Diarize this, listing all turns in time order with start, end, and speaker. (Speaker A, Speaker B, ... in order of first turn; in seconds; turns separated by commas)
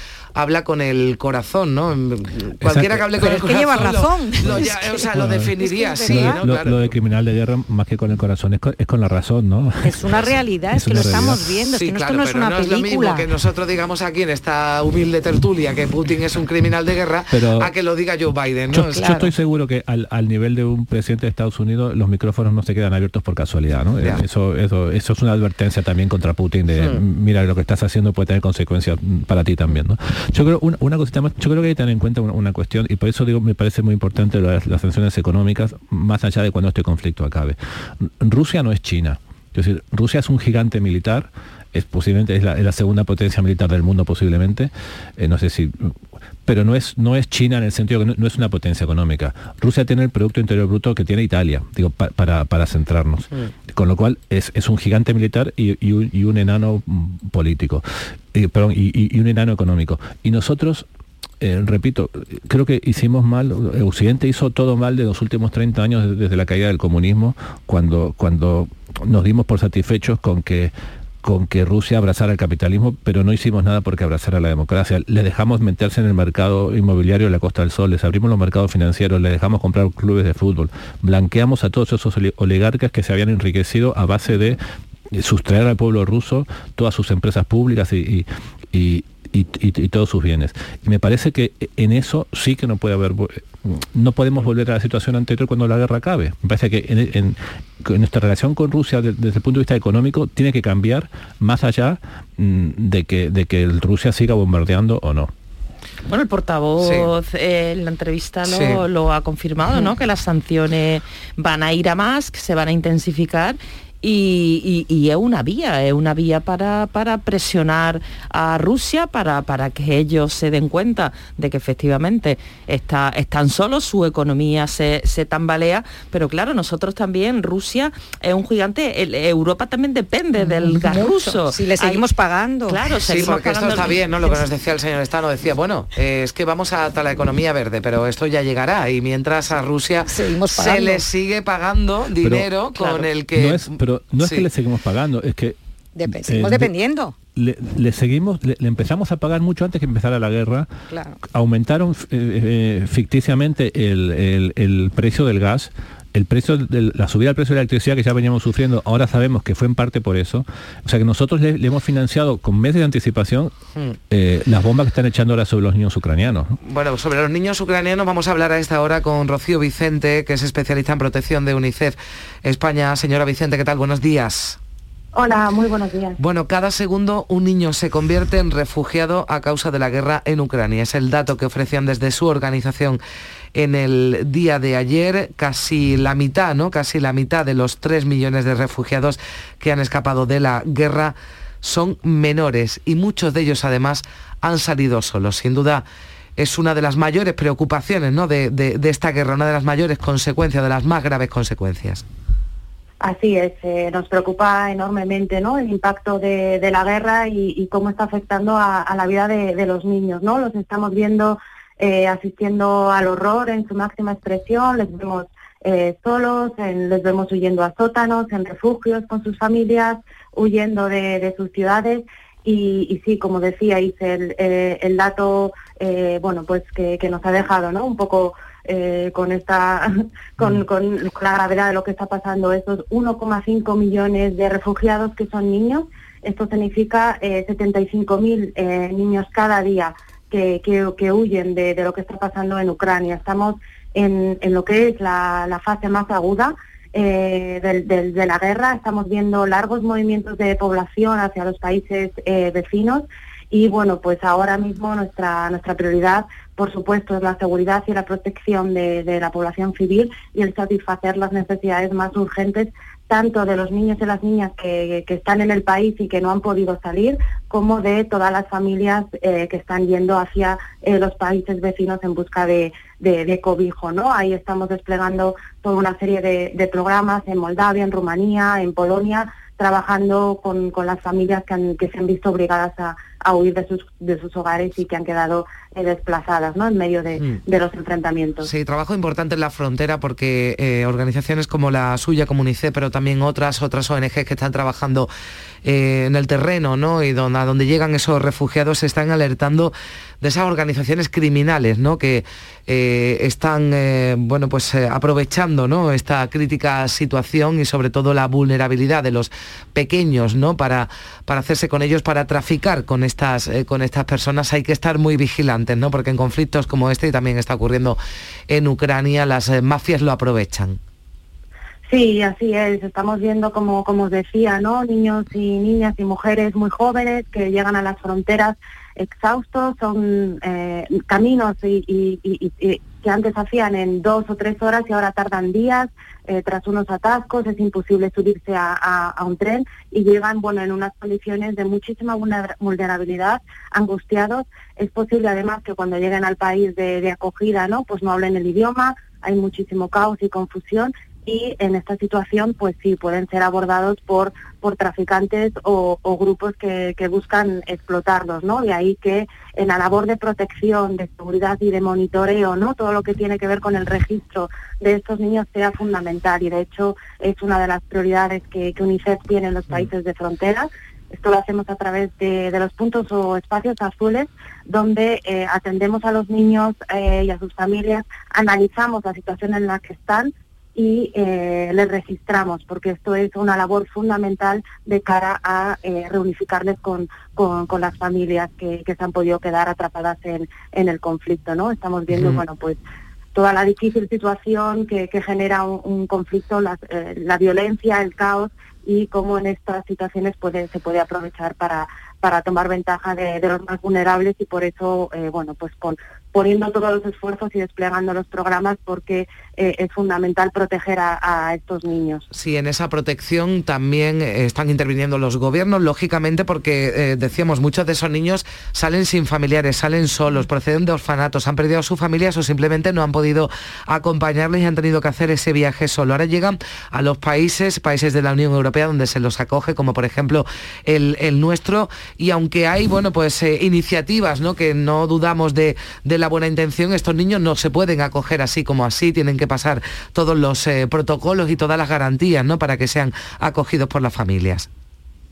Speaker A: 0.4-6.9, Speaker B: 2.6-3.4, Speaker C: 3.2-6.5, Speaker B: 4.5-5.5, Speaker B: 6.0-10.2, Speaker C: 9.8-13.3, Speaker B: 10.8-11.5, Speaker A: 11.7-19.3, Speaker B: 17.3-17.7, Speaker B: 18.7-46.0, Speaker A: 26.7-27.0, Speaker B: 46.5-57.8, Speaker B: 58.3-60.9, Speaker B: 61.4-84.6, Speaker B: 85.1-105.3, Speaker D: 106.1-132.1, Speaker A: 106.8-107.1, Speaker A: 108.5-108.8, Speaker C: 130.4-133.4, Speaker D: 132.7-134.4, Speaker A: 133.1-144.5, Speaker C: 140.1-141.0, Speaker B: 142.2-142.5, Speaker B: 143.3-145.6, Speaker C: 146.0-147.1, Speaker B: 146.2-146.7, Speaker B: 147.4-150.7, Speaker C: 150.9-151.2, Speaker B: 151.3-163.5, Speaker B: 164.1-166.6, Speaker A: 166.7-174.6, Speaker E: 175.1-176.2, Speaker A: 176.2-183.0, Speaker A: 183.6-195.8, Speaker A: 196.4-202.0, Speaker E: 203.0-288.5, Speaker A: 288.4-295.1, Speaker A: 295.6-320.8, Speaker E: 321.9-392.8, Speaker A: 392.1-392.4, Speaker E: 393.3-412.2, Speaker A: 412.3-444.7